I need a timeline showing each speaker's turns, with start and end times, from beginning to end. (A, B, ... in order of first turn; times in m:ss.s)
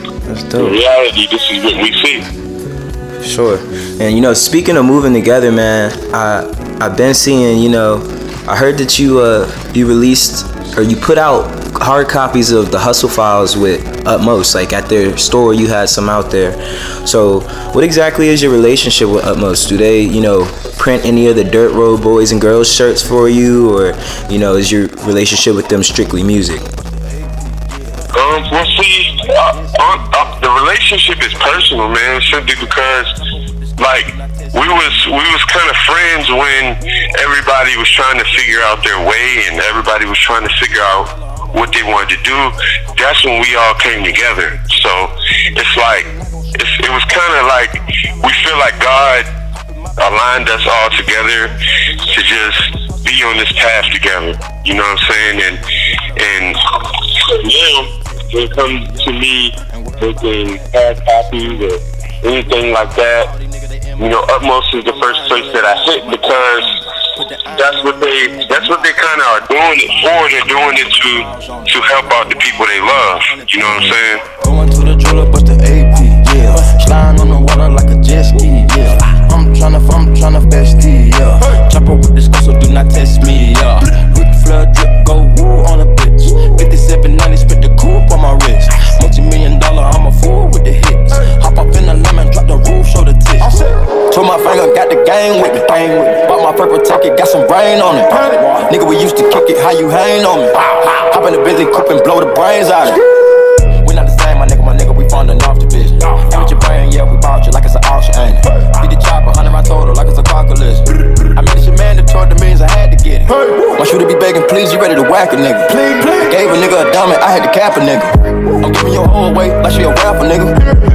0:00.2-0:00.8 A
0:00.6-0:02.3 B
0:03.2-0:26.7 A
0:28.1-0:33.1 B
0:33.8-0:49.3 B
0:50.0-0:55.6 B
0:56.2-1:03.3 B
1:04.0-1:06.8 B
1:06.3-1:06.6 C
1:07.2-1:08.0 C
1:07.5-1:14.2 B
1:11.2-1:11.6 C
1:14.4-1:33.5 C
1:34.1-1:43.0 C
1:43.8-1:55.7 C
1:56.2-2:00.6 C